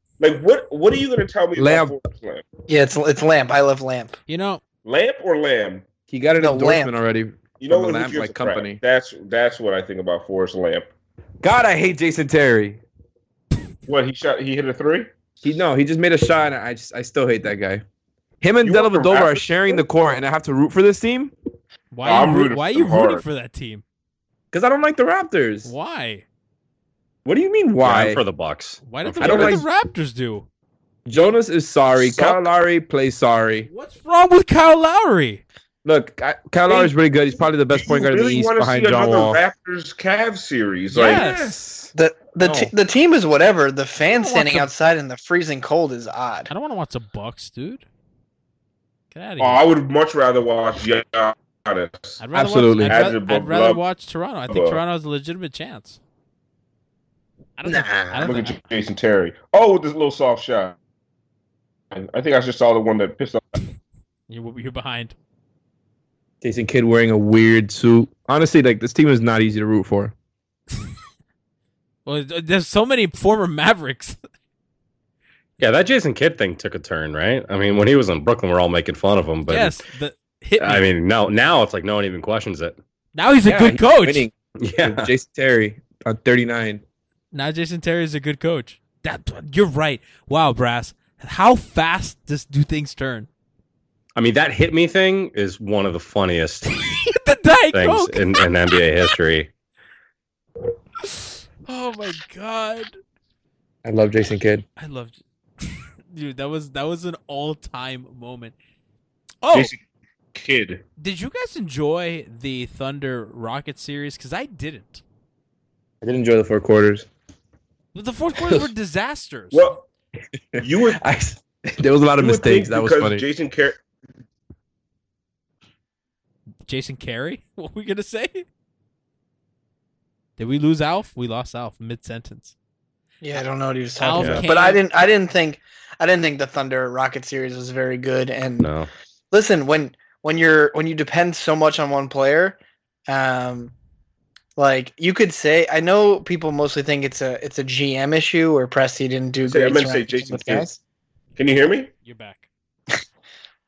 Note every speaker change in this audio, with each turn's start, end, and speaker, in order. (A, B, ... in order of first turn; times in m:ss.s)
0:00.2-0:02.4 A
0:01.6-0:02.0 B
0:02.7-0:04.2 C
0:04.3-0:04.6 D
0:04.8-0:05.9 A
0:06.1-0:08.8 B
0:06.4-0:06.9 C
0:07.6-0:10.9 A
0:11.4-0:12.8 B
0:13.9-0:15.1 A
0:15.4-0:17.8 B
0:18.4-0:21.3 B
0:18.6-0:19.8 A
0:21.9-0:23.8 D
0:22.0-0:23.2 A
0:24.5-0:25.7 B
0:25.6-0:26.2 D
0:27.2-0:28.2 B
0:27.8-0:29.6 E
0:28.8-0:30.5 D
0:29.2-0:29.7 B
0:31.1-0:33.7 B
0:32.0-0:32.5 A
0:33.6-0:35.4 D
0:35.8-0:39.4 B
0:36.7-0:37.0 A
0:37.7-0:41.5 A
0:40.9-0:41.6 D
0:40.9-0:42.7 B
0:42.0-0:46.5 C
0:44.1-0:44.7 D
0:46.5-0:47.8 D
0:49.1-0:49.6 D
0:49.4-0:52.2 A
0:52.2-0:56.0 D
0:52.3-0:53.1 B
0:52.9-0:53.8 A
0:54.5-0:54.8 A
0:57.6-0:58.6 D
0:57.7-0:58.3 C
0:58.0-1:00.8 A
1:01.9-1:03.6 A
1:04.3-1:05.2 D
1:06.4-1:10.1 B
1:12.1-1:14.2 D
1:15.6-1:19.8 E
1:19.5-1:20.8 D
1:20.6-1:22.8 E
1:23.2-1:24.3 D
1:23.4-1:26.8 B
1:24.6-1:25.1 E
1:27.3-1:33.3 D
1:34.2-1:36.7 E
1:36.7-1:38.5 D
1:37.7-1:39.5 E
1:41.0-1:43.0 D
1:43.8-1:44.6 B
1:44.8-1:48.5 D
1:49.4-1:49.7 D
1:49.5-1:49.8 A
1:50.3-1:50.8 A
1:51.0-1:55.0 D
1:56.0-1:57.1 B
1:57.9-1:59.7 D
1:58.4-1:58.7 B
1:59.5-1:59.9 A
2:00.5-2:03.2 B
2:00.6-2:01.0 A
2:02.2-2:03.8 A
2:06.7-2:08.5 D
2:10.4-2:12.5 D
2:13.2-2:18.7 C
2:14.0-2:14.8 D
2:14.2-2:14.4 E
2:18.6-2:18.9 E
2:19.3-2:23.7 C
2:24.6-2:30.8 C
2:29.4-2:30.7 A
2:31.4-2:31.9 A
2:32.0-2:32.5 D